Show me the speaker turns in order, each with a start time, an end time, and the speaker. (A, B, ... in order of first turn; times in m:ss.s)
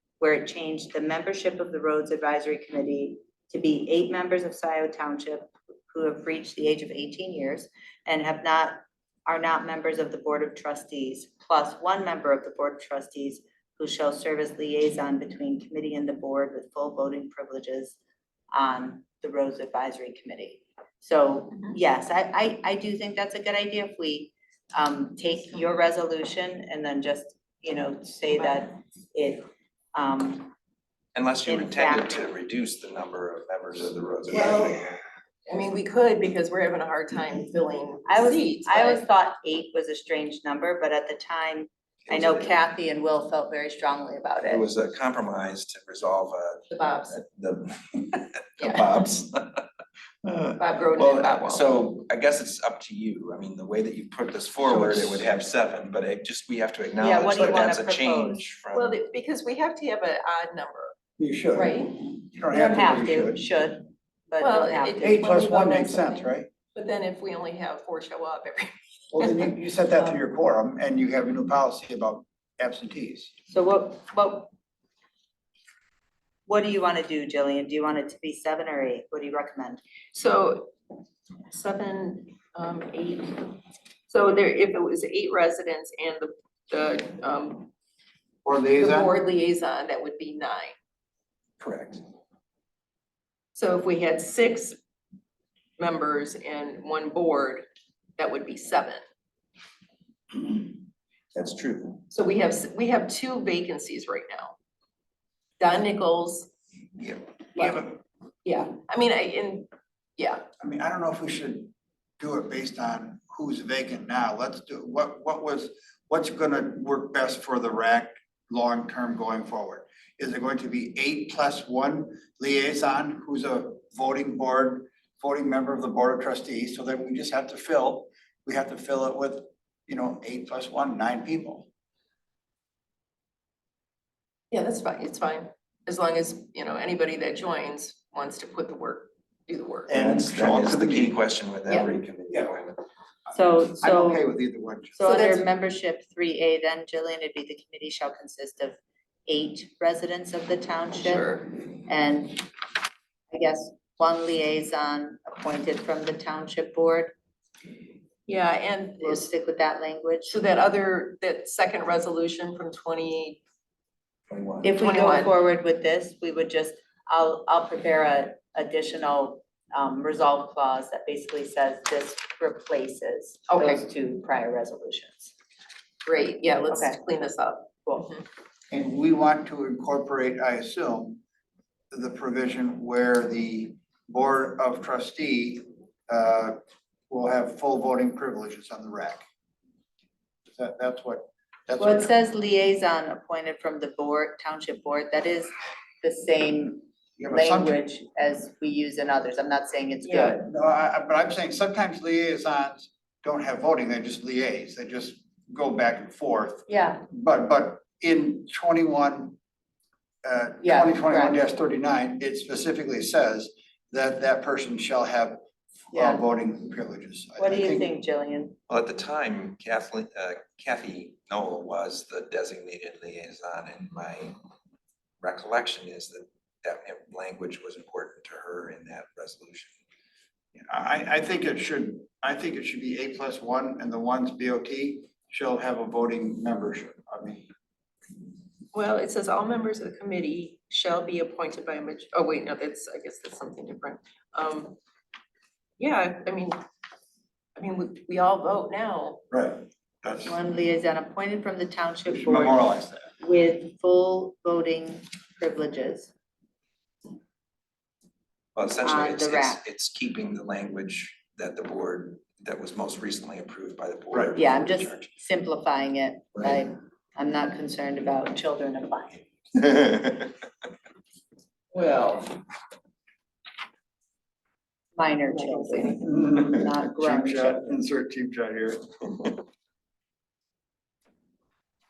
0:00.2-0:18.0 A
0:18.5-0:30.5 A
0:31.1-0:34.8 B
0:31.5-0:32.2 A
0:34.3-0:34.9 C
0:35.5-0:39.0 C
0:38.0-0:44.6 A
0:42.1-0:42.6 B
0:44.5-0:49.6 B
0:46.7-0:47.2 C
0:48.6-0:48.9 C
0:50.2-0:58.9 B
0:50.6-0:51.8 C
0:54.6-0:55.3 D
0:57.0-0:58.4 A
0:58.7-1:01.0 C
1:01.2-1:03.4 D
1:01.5-1:02.0 C
1:02.5-1:05.2 A
1:04.4-1:09.5 C
1:05.0-1:06.5 D
1:09.1-1:13.3 D
1:13.5-1:14.5 A
1:16.5-1:19.8 A
1:20.1-1:20.7 C
1:21.5-1:23.6 C
1:24.1-1:27.7 C
1:28.4-1:29.1 D
1:28.8-1:30.7 C
1:31.6-1:32.0 B
1:33.5-1:34.8 C
1:35.8-1:37.6 C
1:38.2-1:39.0 C
1:41.3-1:42.0 B
1:42.1-1:44.5 C
1:45.6-1:46.5 C
1:47.0-1:48.0 D
1:47.5-1:47.9 C
1:48.4-1:50.4 C
1:50.6-2:11.7 D
2:14.5-2:19.9 C
2:19.9-2:21.2 D
2:19.9-2:22.8 B
2:23.3-2:24.3 A
2:23.8-2:25.0 D
2:25.0-2:32.5 A
2:25.0-2:25.4 C
2:31.0-2:31.5 C
2:33.3-2:37.1 A
2:38.3-2:39.3 C
2:39.0-2:40.4 A
2:40.3-2:43.4 C
2:44.3-2:44.7 B
2:44.6-2:55.3 A
2:44.8-2:45.3 C
2:53.5-2:53.8 C
2:56.0-2:58.2 C
2:56.7-2:57.0 A
2:57.8-2:58.1 A
2:58.7-3:01.2 D
3:01.9-3:06.6 D
3:07.1-3:09.2 D
3:10.5-3:12.1 D
3:11.8-3:20.5 A
3:17.2-3:17.8 D
3:20.0-3:20.4 C
3:20.4-3:29.4 D
3:26.7-3:27.0 A
3:30.2-3:35.4 D
3:30.6-3:31.4 A
3:35.9-3:37.9 D
3:35.9-3:36.2 A
3:37.4-3:38.5 A
3:38.7-3:44.4 B
3:45.2-3:49.7 B
3:50.5-3:57.5 D
3:58.7-4:04.8 C
4:05.8-4:06.6 C
4:07.6-4:09.2 C
4:09.3-4:10.3 D
4:10.2-4:12.6 A
4:12.0-4:13.1 D
4:13.2-4:16.1 A
4:18.5-4:25.1 B
4:18.8-4:19.6 A
4:24.3-4:29.2 A
4:31.7-4:32.4 C
4:35.0-4:37.6 A
4:35.3-4:36.0 C
4:36.0-4:38.9 D